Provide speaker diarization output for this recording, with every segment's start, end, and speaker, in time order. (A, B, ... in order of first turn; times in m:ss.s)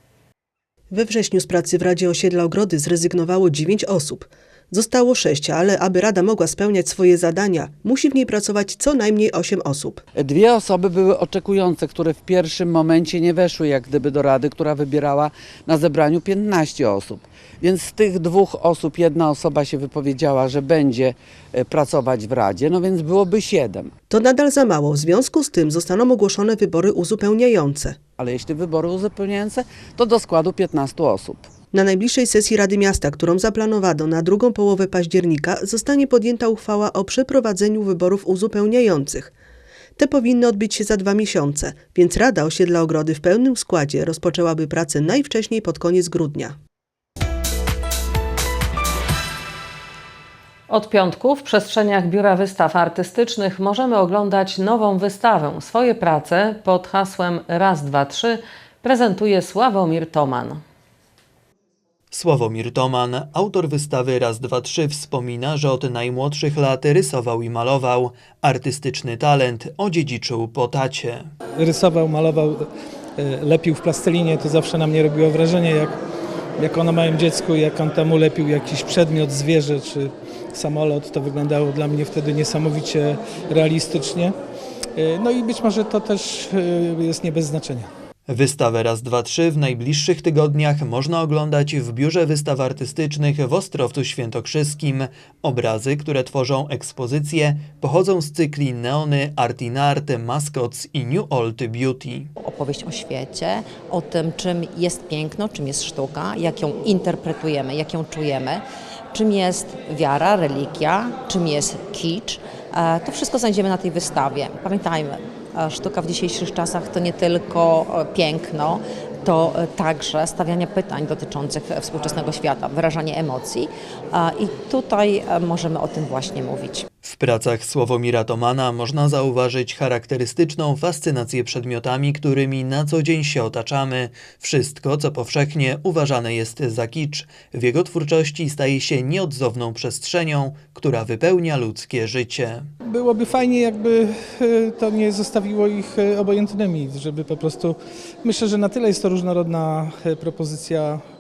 0:00.9-0:10.0 A
0:10.1-0:23.9 B
0:24.1-0:28.0 A
0:28.2-0:31.5 B
0:31.7-0:39.3 A
0:40.0-0:46.6 A
0:50.7-1:00.6 C
1:02.1-1:11.3 D
1:11.6-1:12.7 E
1:13.2-1:16.0 E
1:16.6-1:24.3 E
1:25.0-1:27.9 E
1:28.3-1:42.3 D
1:42.4-2:06.8 F
2:07.0-2:22.7 D
2:22.8-2:31.0 E